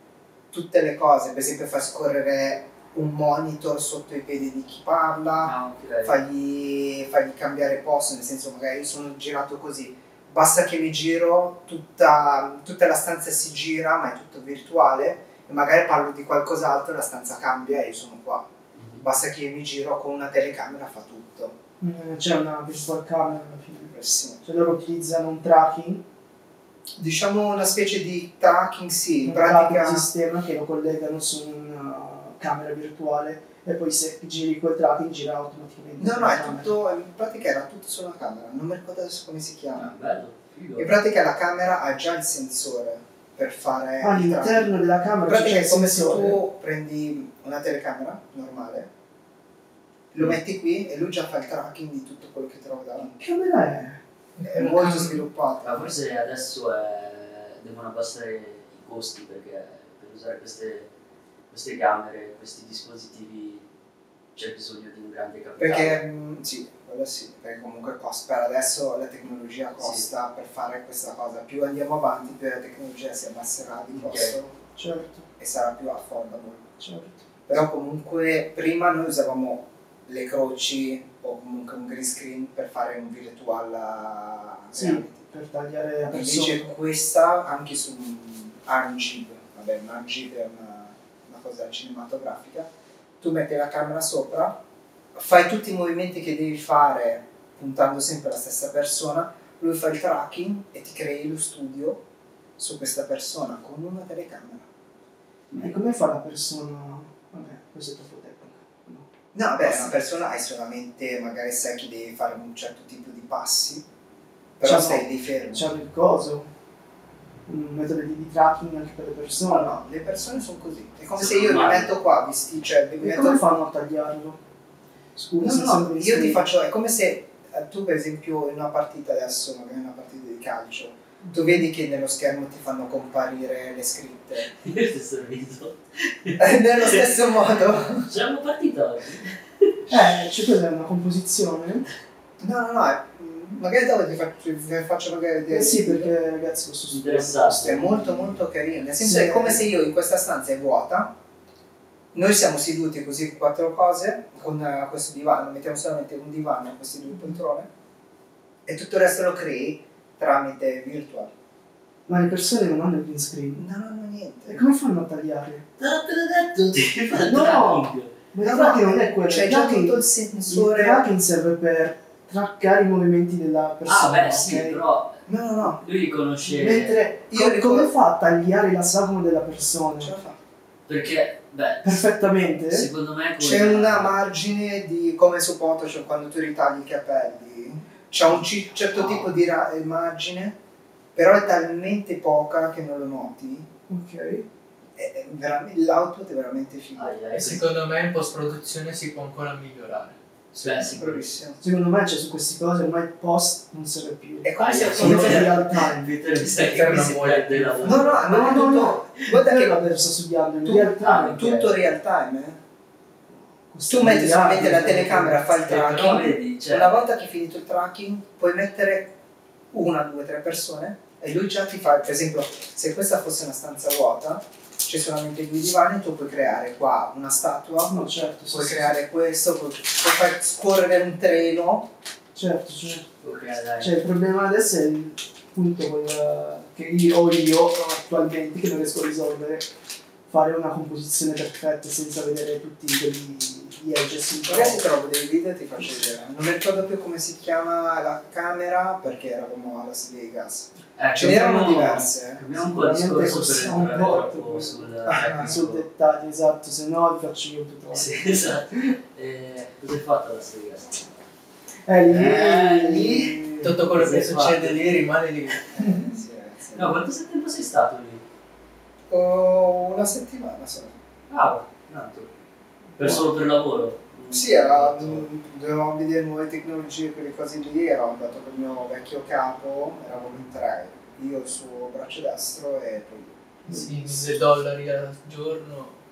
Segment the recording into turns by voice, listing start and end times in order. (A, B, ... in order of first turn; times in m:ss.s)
0:00.5-0:18.5 A
0:05.4-0:06.2 B
0:18.8-0:19.0 B
0:19.0-0:21.6 A
0:21.8-0:26.0 C
0:23.9-0:24.4 A
0:27.0-0:30.1 A
0:29.2-0:36.7 C
0:36.0-0:39.9 A
0:39.8-0:40.9 B
0:40.8-0:44.7 A
0:44.0-0:46.4 C
0:45.2-0:48.9 A
0:50.1-0:53.2 A
0:53.2-0:54.0 C
0:54.4-0:55.2 D
0:54.4-0:55.9 A
0:55.6-1:00.9 B
1:01.5-1:03.7 B
1:04.4-1:06.0 B
1:05.6-1:14.6 A
1:09.8-1:10.1 B
1:13.9-1:14.4 B
1:14.8-1:15.3 C
1:15.4-1:16.7 A
1:16.8-1:17.3 C
1:17.5-1:25.2 A
1:24.8-1:26.7 C
1:26.0-1:32.7 A
1:33.2-1:34.6 A
1:35.1-1:42.0 A
1:42.6-1:44.7 A
1:45.6-1:49.1 C
1:49.3-1:53.8 A
1:54.6-1:55.7 A
1:54.6-1:56.5 C
1:57.5-1:59.7 C
1:59.5-2:03.5 A
2:01.2-2:01.9 B
2:03.0-2:04.4 C
2:05.2-2:06.4 C
2:05.4-2:14.5 A
2:14.4-2:17.0 B
2:16.4-2:18.1 A
2:17.9-2:19.8 B
2:19.9-2:21.9 C
2:22.4-2:26.1 A
2:25.5-2:28.3 C
2:26.9-2:27.9 B
2:27.6-2:31.1 A
2:29.0-2:29.6 C
2:32.1-2:37.7 A
2:38.7-2:41.3 A
2:42.1-2:43.6 C
2:43.6-2:44.6 A
2:44.5-2:45.7 C
2:45.8-2:48.2 B
2:47.2-2:54.8 C
2:48.4-2:51.1 A
2:53.8-2:57.0 B
2:55.3-2:55.8 A
2:56.5-3:00.1 C
2:57.3-2:57.9 A
3:00.0-3:00.4 A
3:00.9-3:02.1 B
3:01.8-3:02.9 C
3:02.7-3:04.1 B
3:03.4-3:10.6 A
3:11.2-3:13.7 A
3:13.9-3:14.5 C
3:15.0-3:17.1 A
3:17.0-3:17.8 B
3:17.4-3:20.9 D
3:20.5-3:21.3 B
3:21.0-3:21.6 A
3:21.6-3:26.1 C
3:24.4-3:25.8 A
3:24.6-3:28.2 B
3:26.4-3:28.2 D
3:27.8-3:29.8 A
3:28.2-3:31.4 C
3:30.6-3:32.6 A
3:30.9-3:31.9 B
3:33.7-3:35.4 C
3:33.9-3:39.1 A
3:35.6-3:37.1 B
3:39.7-3:51.9 A
3:47.9-3:49.0 C
3:52.3-3:53.1 C
3:53.2-3:54.0 B
3:53.8-3:59.7 C
4:00.3-4:04.8 C
4:04.5-4:12.4 A
4:11.0-4:15.8 B
4:12.6-4:18.3 C
4:15.1-4:15.6 A
4:17.9-4:21.1 B
4:21.9-4:23.8 C
4:22.1-4:23.4 A
4:22.2-4:22.6 B
4:23.6-4:25.7 D
4:23.9-4:25.0 B
4:25.7-4:27.0 A
4:25.8-4:26.1 C
4:26.7-4:28.2 B
4:29.1-4:31.0 A
4:31.3-4:32.3 B
4:33.0-4:35.3 B
4:34.3-4:43.4 A
4:43.7-4:44.2 C
4:43.7-4:46.0 D